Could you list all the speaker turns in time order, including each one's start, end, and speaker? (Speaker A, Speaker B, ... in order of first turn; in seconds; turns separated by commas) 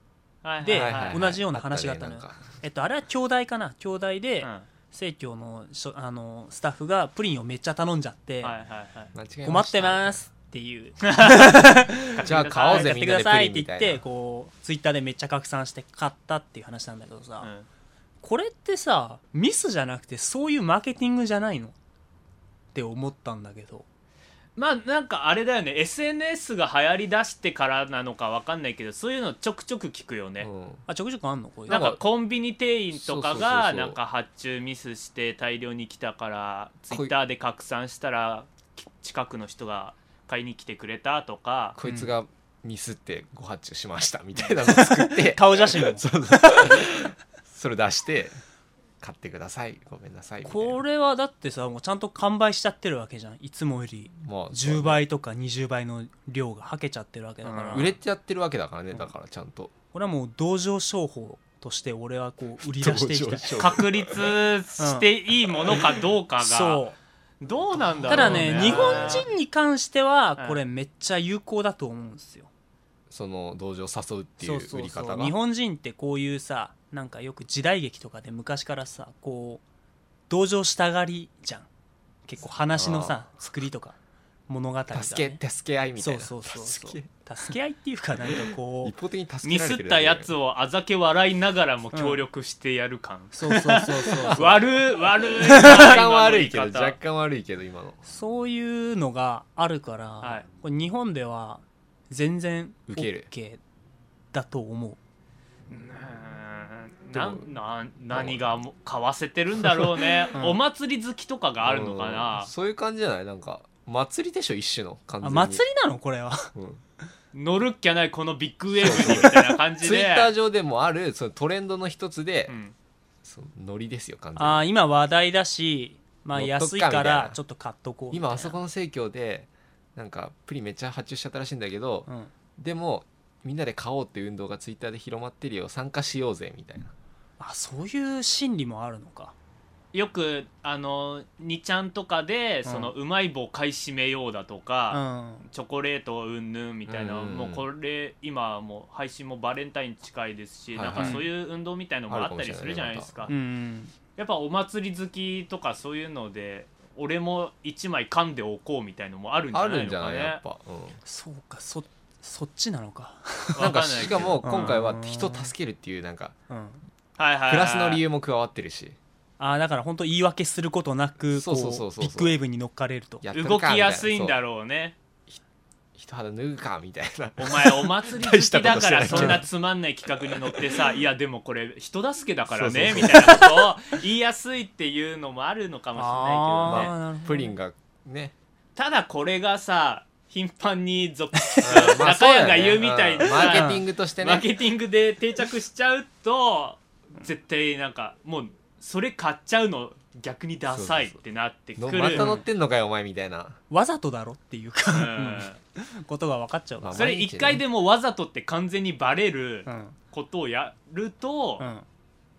Speaker A: 0.4-1.2, Speaker B: 0.6-8.6, Speaker C: 0.7-2.4, Speaker A: 4.4-4.7, Speaker A: 8.4-9.1, Speaker C: 9.1-10.2, Speaker B: 9.4-17.5, Speaker A: 11.0-13.0, Speaker C: 12.2-14.0, Speaker A: 17.4-17.7, Speaker B: 18.2-21.7, Speaker B: 22.7-23.8, Speaker A: 24.6-30.5, Speaker C: 30.4-30.8, Speaker B: 30.9-31.9, Speaker C: 31.7-32.0, Speaker A: 31.7-41.8, Speaker C: 32.9-34.0, Speaker C: 36.9-37.1, Speaker C: 41.8-48.4, Speaker B: 41.8-42.1, Speaker B: 44.6-46.8, Speaker C: 49.0-50.8, Speaker B: 50.4-57.9, Speaker C: 54.2-55.0, Speaker A: 57.4-57.9, Speaker C: 57.7-59.7, Speaker B: 59.9-63.6, Speaker C: 62.6-64.3, Speaker A: 63.6-66.8, Speaker B: 64.8-65.1, Speaker B: 66.4-67.0, Speaker A: 67.4-69.3, Speaker C: 68.0-69.2, Speaker B: 68.1-72.5, Speaker C: 73.1-75.3, Speaker B: 74.4-79.6, Speaker B: 80.3-81.7, Speaker B: 82.2-84.0, Speaker C: 82.7-83.2, Speaker B: 84.5-85.4, Speaker C: 84.9-87.1, Speaker B: 86.0-88.9, Speaker C: 88.2-90.3, Speaker A: 89.4-97.0, Speaker B: 91.9-92.2, Speaker B: 93.3-94.6, Speaker C: 94.0-94.7, Speaker C: 95.4-98.0, Speaker B: 98.0-103.6, Speaker A: 100.2-100.5, Speaker C: 102.9-103.3, Speaker B: 104.3-105.0, Speaker A: 105.7-112.5, Speaker C: 107.1-107.5, Speaker C: 108.1-108.6, Speaker C: 111.6-115.6, Speaker B: 115.2-116.5, Speaker C: 116.5-116.8, Speaker A: 117.3-120.3, Speaker C: 118.8-122.5, Speaker B: 118.8-119.3, Speaker A: 122.5-122.7, Speaker C: 123.2-124.6, Speaker B: 124.3-128.6, Speaker C: 126.3-127.4, Speaker C: 128.1-136.9, Speaker B: 137.4-139.3, Speaker A: 139.9-153.3, Speaker B: 142.6-142.9, Speaker B: 144.9-145.4, Speaker C: 146.8-147.6, Speaker C: 150.7-151.3, Speaker B: 150.9-151.2, Speaker C: 152.1-153.2, Speaker B: 153.3-153.9, Speaker A: 154.2-160.4, Speaker C: 159.5-161.0, Speaker B: 161.1-163.7, Speaker A: 163.5-164.7, Speaker C: 163.6-166.3, Speaker B: 164.4-165.5, Speaker B: 166.5-166.8, Speaker A: 167.2-168.0, Speaker C: 167.5-169.0, Speaker B: 169.4-173.2, Speaker C: 171.3-172.4, Speaker C: 173.2-174.4, Speaker A: 173.3-175.0, Speaker C: 175.9-179.4, Speaker A: 177.4-186.9, Speaker B: 179.1-179.4, Speaker C: 180.3-180.6, Speaker C: 182.5-183.7, Speaker B: 185.9-187.5, Speaker C: 186.7-188.3, Speaker A: 188.8-202.4, Speaker B: 191.4-191.8, Speaker C: 191.6-194.5, Speaker B: 193.2-193.8, Speaker C: 200.7-201.2, Speaker C: 201.8-203.6, Speaker B: 202.1-202.4, Speaker B: 203.7-207.1, Speaker A: 204.9-205.6, Speaker C: 206.8-207.6, Speaker A: 206.9-211.7, Speaker B: 209.7-209.9, Speaker B: 211.6-211.8